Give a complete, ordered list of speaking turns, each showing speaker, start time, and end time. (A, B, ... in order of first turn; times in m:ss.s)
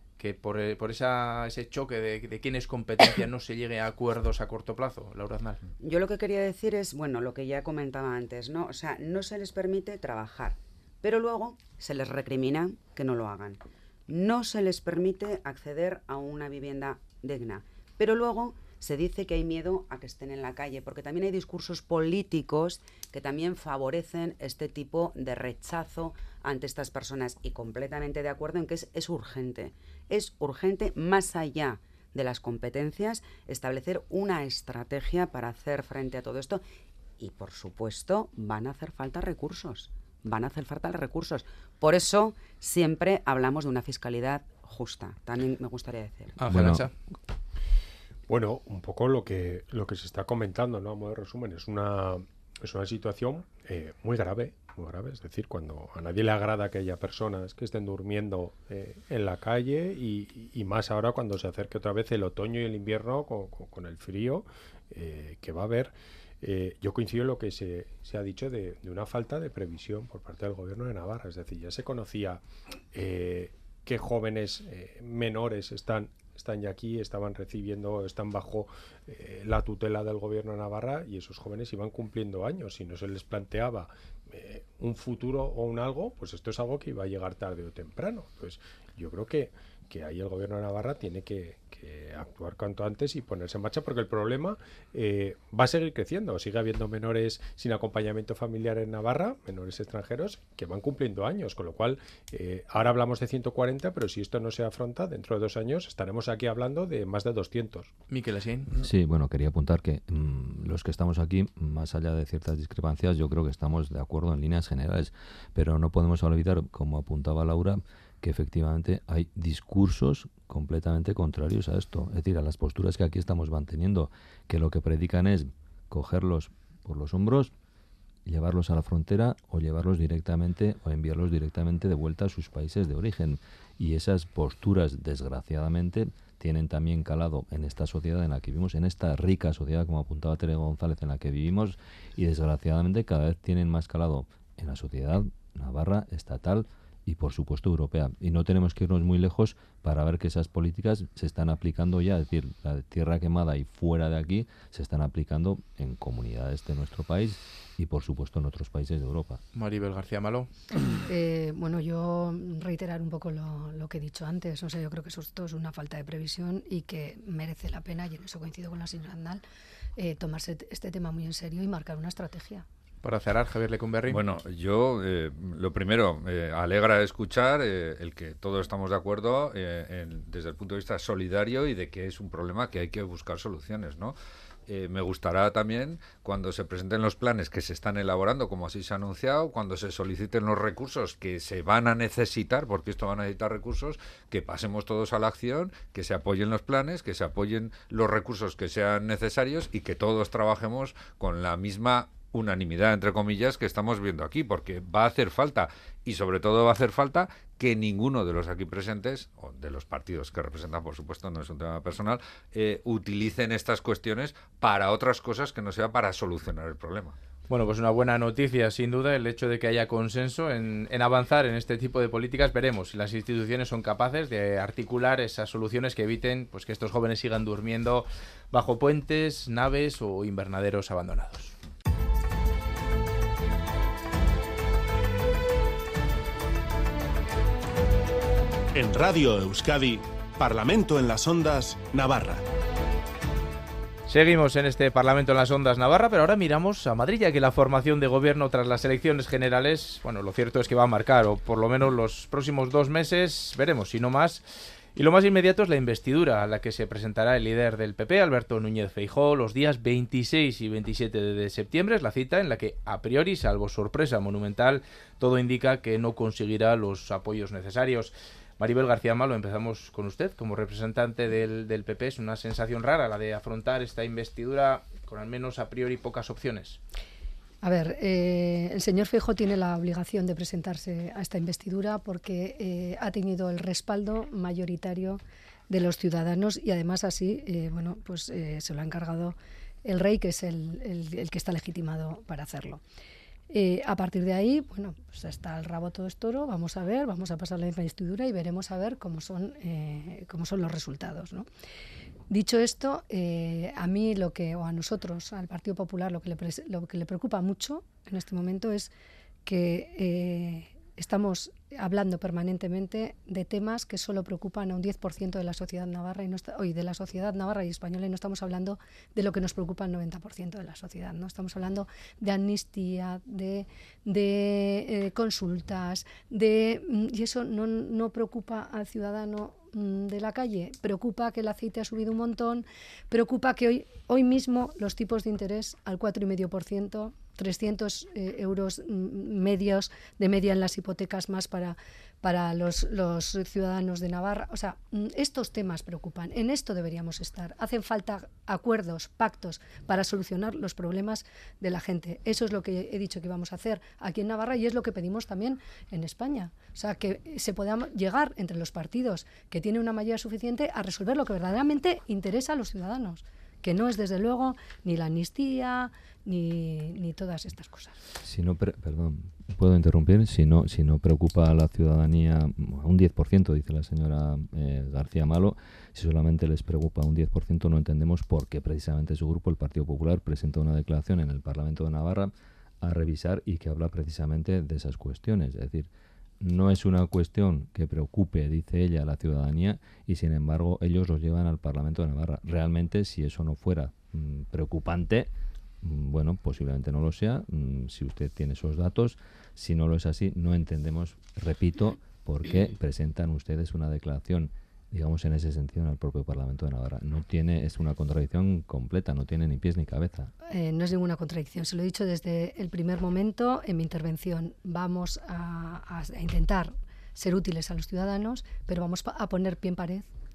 0:00.2-0:05.6 A
0:05.8-0:36.6 B
0:37.2-0:46.4 B
0:46.4-0:46.9 A
0:46.4-0:46.9 C
0:48.3-1:47.9 D
1:48.1-1:48.7 A
1:48.7-2:07.5 C
2:08.2-2:39.4 C
2:39.5-2:40.5 A
2:41.1-2:49.4 E
2:50.0-2:52.6 E
2:53.0-2:54.2 A
2:54.1-3:04.2 F
3:04.7-3:37.2 F
3:37.5-3:51.5 A
3:58.7-4:02.4 G
4:04.1-4:36.8 A
4:37.6-4:52.8 E
4:53.5-5:01.5 E
5:02.3-5:08.9 E
5:09.4-6:08.0 E
6:08.2-6:25.9 C
6:26.4-6:35.3 C
6:35.8-6:50.3 C
6:50.5-7:00.1 E